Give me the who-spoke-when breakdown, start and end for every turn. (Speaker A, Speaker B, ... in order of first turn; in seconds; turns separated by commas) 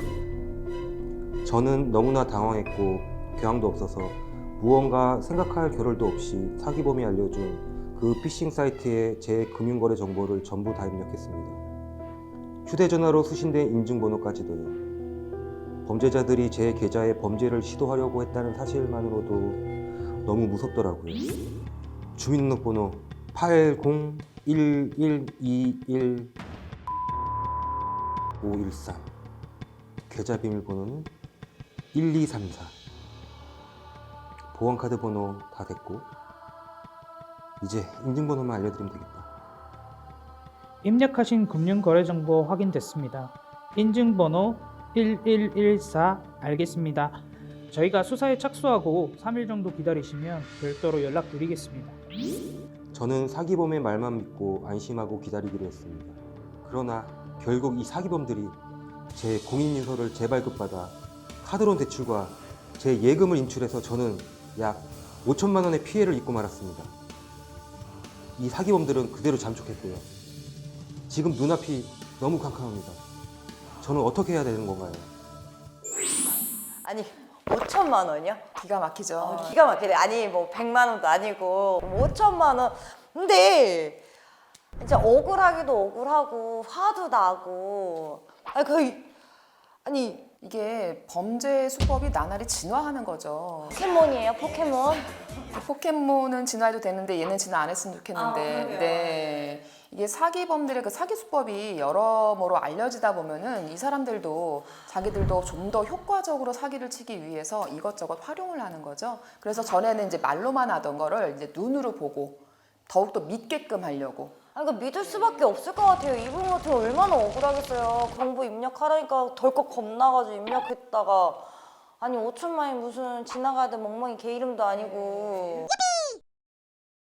Speaker A: 1.4-11.6, Speaker A: 12.7-14.8, Speaker A: 15.8-19.6, Speaker A: 20.2-21.4, Speaker A: 22.1-26.3, Speaker A: 28.4-29.1, Speaker A: 30.1-31.1, Speaker A: 31.9-32.8, Speaker A: 34.5-36.1, Speaker A: 37.6-39.3, Speaker B: 40.8-52.0, Speaker A: 52.9-58.6, Speaker A: 59.1-66.9, Speaker A: 68.4-70.1, Speaker A: 71.1-73.0, Speaker A: 73.8-75.1, Speaker C: 76.8-78.4, Speaker D: 78.5-79.6, Speaker C: 79.2-84.0, Speaker C: 84.8-89.1, Speaker C: 89.8-90.3, Speaker D: 90.4-93.8, Speaker C: 93.7-95.2, Speaker D: 95.5-114.3, Speaker C: 98.1-99.4, Speaker C: 109.5-109.8, Speaker C: 114.5-125.7, Speaker D: 115.0-115.5, Speaker D: 124.7-125.6